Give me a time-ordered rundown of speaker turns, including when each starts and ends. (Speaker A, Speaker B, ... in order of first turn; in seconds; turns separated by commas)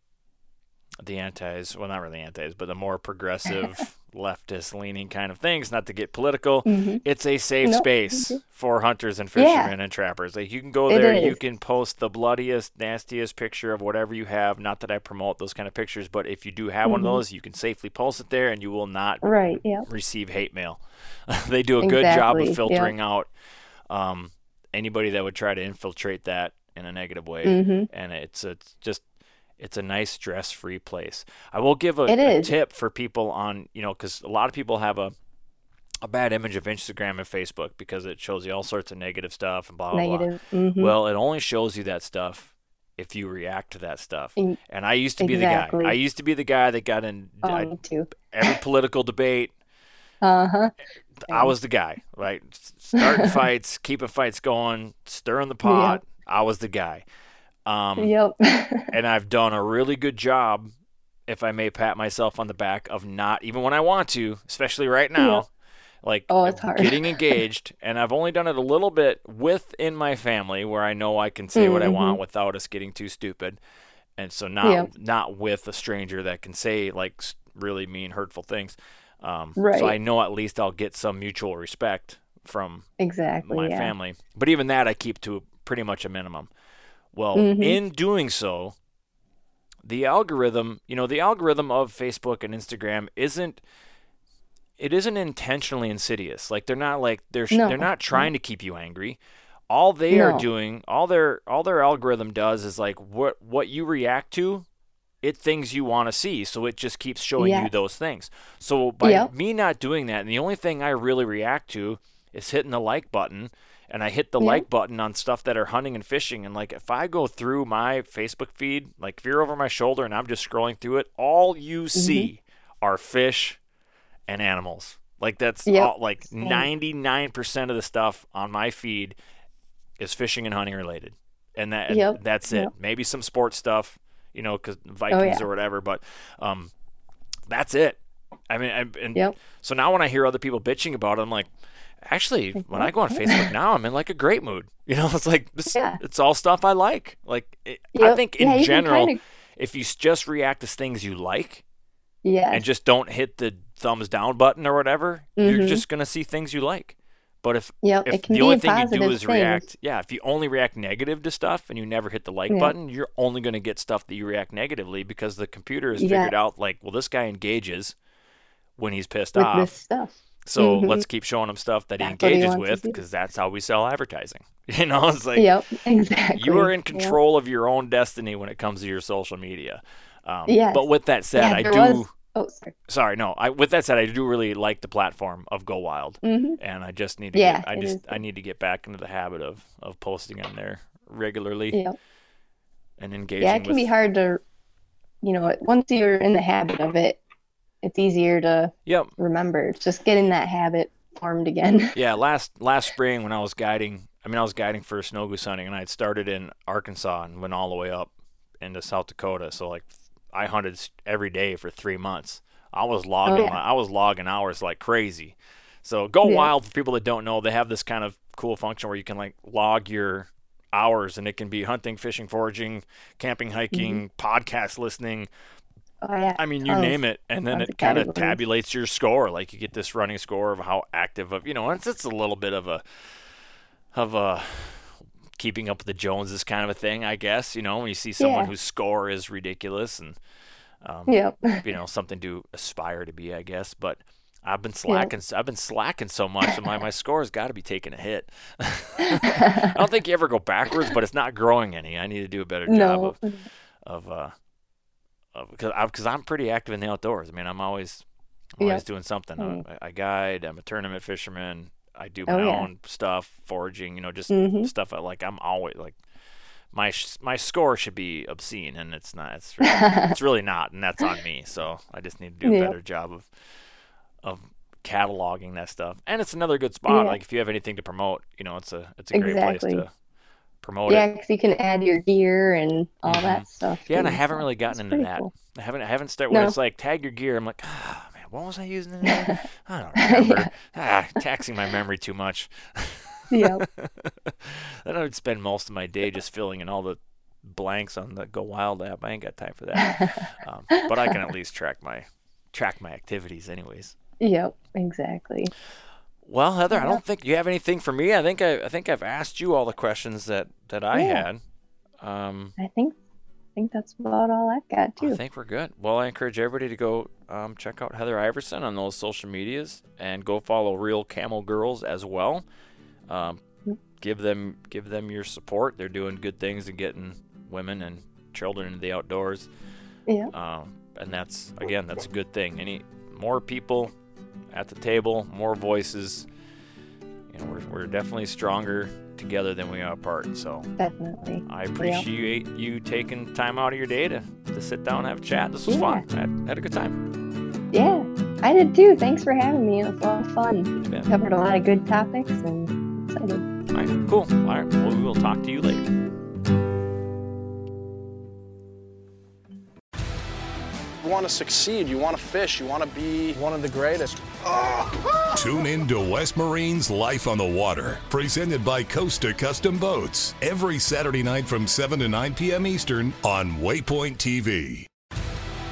Speaker A: 1.0-23.3, Speaker B: 6.7-7.0, Speaker B: 7.6-8.4, Speaker B: 9.4-9.7, Speaker B: 10.9-11.4, Speaker B: 16.9-17.2, Speaker B: 19.2-19.9, Speaker B: 21.8-22.9, Speaker A: 23.9-29.0, Speaker B: 27.4-27.9, Speaker A: 29.6-35.1, Speaker B: 32.1-32.5, Speaker A: 36.0-49.5, Speaker B: 39.9-40.9, Speaker B: 45.2-46.0, Speaker B: 47.4-48.6, Speaker B: 50.2-50.7, Speaker A: 51.3-57.0, Speaker B: 53.0-53.2, Speaker B: 55.6-56.0, Speaker A: 57.7-58.1, Speaker B: 58.0-58.9, Speaker A: 58.9-60.7, Speaker A: 61.3-65.5, Speaker B: 65.2-65.4, Speaker A: 66.0-73.6, Speaker B: 66.3-67.4, Speaker B: 71.6-72.2, Speaker A: 74.2-82.9, Speaker B: 79.6-80.0, Speaker B: 83.0-83.9, Speaker A: 83.5-86.5, Speaker A: 87.1-88.7, Speaker B: 87.4-87.8, Speaker A: 89.8-93.6, Speaker A: 94.8-99.2, Speaker B: 97.5-98.3, Speaker A: 99.7-104.7, Speaker B: 100.1-100.4, Speaker A: 105.2-123.6, Speaker B: 107.4-107.7, Speaker B: 109.0-109.3, Speaker B: 114.4-114.7, Speaker B: 122.0-122.3, Speaker A: 124.3-129.2, Speaker B: 125.7-126.7, Speaker A: 130.0-136.7, Speaker B: 131.9-132.7, Speaker B: 135.1-135.4, Speaker A: 137.5-138.0, Speaker A: 138.5-141.5, Speaker A: 142.1-151.6, Speaker B: 142.7-143.5, Speaker B: 145.7-146.0, Speaker B: 148.0-149.2, Speaker B: 152.2-152.6, Speaker A: 152.5-167.9, Speaker B: 155.4-155.8, Speaker B: 157.8-159.7, Speaker B: 166.0-166.3, Speaker A: 168.8-169.7, Speaker B: 169.4-171.0, Speaker A: 170.5-175.5, Speaker B: 172.0-173.0, Speaker B: 175.4-177.2, Speaker A: 176.3-182.1, Speaker B: 180.5-180.8, Speaker B: 181.4-182.7, Speaker A: 182.9-191.8, Speaker B: 186.2-186.6, Speaker B: 187.3-188.2, Speaker A: 193.0-193.9, Speaker B: 193.4-194.4, Speaker B: 195.2-197.2, Speaker B: 197.8-202.0, Speaker A: 198.9-199.1, Speaker A: 201.9-225.3, Speaker B: 213.3-213.6, Speaker B: 223.7-224.0, Speaker B: 226.0-227.0, Speaker A: 226.4-232.8, Speaker B: 227.5-228.4, Speaker A: 233.9-240.2, Speaker B: 238.2-238.5, Speaker A: 240.8-253.2, Speaker B: 241.1-241.7, Speaker B: 249.0-249.8, Speaker B: 252.7-253.4, Speaker A: 253.8-254.3, Speaker A: 255.3-258.0, Speaker A: 258.6-266.0, Speaker B: 259.4-259.6, Speaker B: 262.3-262.7, Speaker B: 264.3-264.7, Speaker A: 266.7-273.3, Speaker B: 269.6-270.1, Speaker B: 272.4-272.8, Speaker A: 274.2-279.9, Speaker B: 276.9-277.2, Speaker B: 279.1-279.8, Speaker A: 280.6-281.1, Speaker B: 280.9-285.3, Speaker A: 283.1-303.9, Speaker B: 290.0-290.5, Speaker B: 293.3-293.6, Speaker B: 299.8-300.3, Speaker B: 300.8-301.1, Speaker B: 304.2-305.5, Speaker A: 306.3-311.4, Speaker B: 306.7-307.0, Speaker B: 310.9-311.3, Speaker A: 312.0-312.6, Speaker B: 312.6-312.9, Speaker B: 313.6-315.2, Speaker A: 315.0-322.4, Speaker A: 323.1-323.4, Speaker A: 324.0-329.5, Speaker A: 330.3-333.9, Speaker A: 334.5-336.3, Speaker A: 337.3-340.7, Speaker B: 340.8-342.0, Speaker A: 341.5-347.0, Speaker B: 345.7-346.0, Speaker B: 347.7-353.5, Speaker A: 350.8-351.1, Speaker A: 353.7-355.9, Speaker C: 361.0-365.4, Speaker D: 365.4-374.9